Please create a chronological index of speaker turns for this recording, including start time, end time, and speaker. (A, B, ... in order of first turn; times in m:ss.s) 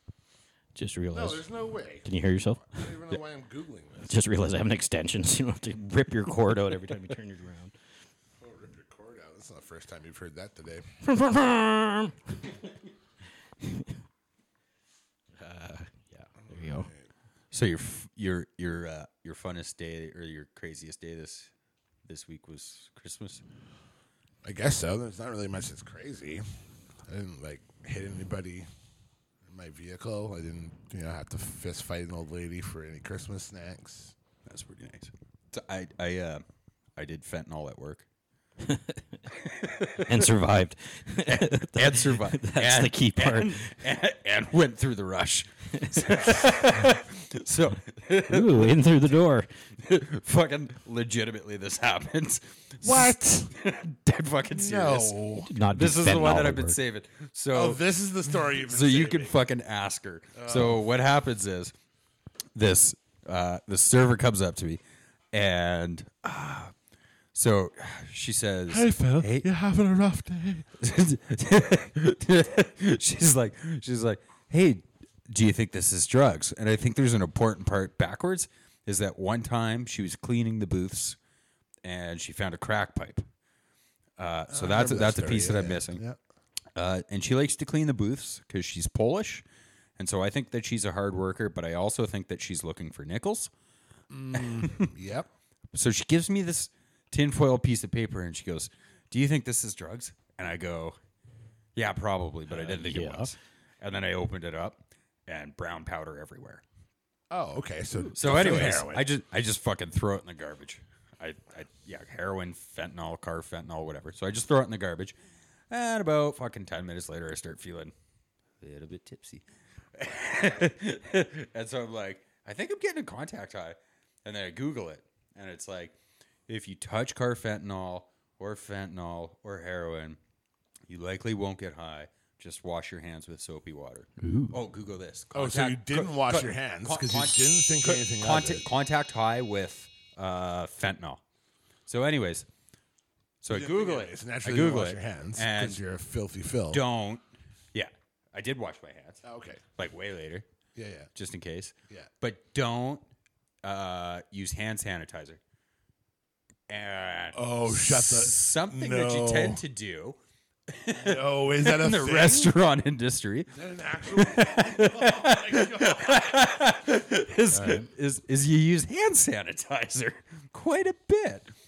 0:00.7-0:01.5 A
0:01.1-0:02.1 B
0:02.0-0:02.9 A
0:02.6-0:04.1 B
0:04.1-0:07.7 A
0:08.4-0:10.9 B
0:11.0-0:12.2 A
0:13.6-0:13.9 A
0:15.4-0:16.9 A
0:16.7-0:17.0 B
0:17.5-0:21.5 C
0:22.0-0:23.4 C
0:24.4-0:26.4 B
0:27.1-0:28.7 B
0:29.4-0:34.1 B
0:34.5-0:36.4 C
0:37.0-0:38.0 C
0:38.6-0:39.0 A
0:39.4-0:40.2 C
0:40.0-0:43.7 A
0:41.2-0:48.7 C
0:48.3-0:49.5 A
0:49.8-0:57.8 C
0:52.8-0:53.5 B
0:54.5-0:55.5 B
0:55.5-0:56.8 A
0:57.5-0:59.4 B
0:58.5-1:01.7 C
1:00.4-1:00.8 B
1:02.5-1:04.8 C
1:05.3-1:06.7 C
1:07.3-1:09.5 C
1:08.7-1:10.7 B
1:10.8-1:21.2 C
1:21.8-1:23.2 C
1:24.2-1:26.0 C
1:24.5-1:26.2 B
1:26.8-1:29.4 C
1:30.0-1:33.5 C
1:34.1-1:35.3 B
1:34.4-1:34.9 C
1:35.7-1:41.0 C
1:41.7-1:46.6 C
1:42.5-1:43.3 A
1:47.3-1:49.1 B
1:48.2-1:55.1 C
1:55.7-1:57.9 C
1:58.6-2:05.9 C
2:06.5-2:10.2 C
2:10.9-2:21.2 C
2:14.2-2:14.6 A
2:15.3-2:18.6 B
2:21.9-2:22.5 C
2:23.4-2:25.8 C
2:23.5-2:26.8 B
2:26.7-2:29.2 C
2:29.2-2:29.6 B
2:29.8-2:30.4 C
2:30.7-2:31.1 B
2:31.1-2:33.0 C
2:33.6-2:35.4 C
2:36.7-2:40.2 C
2:37.3-2:39.6 B
2:40.7-2:43.5 C
2:40.9-2:42.5 B
2:43.5-2:46.2 B
2:44.0-2:51.5 C
2:47.5-2:47.9 A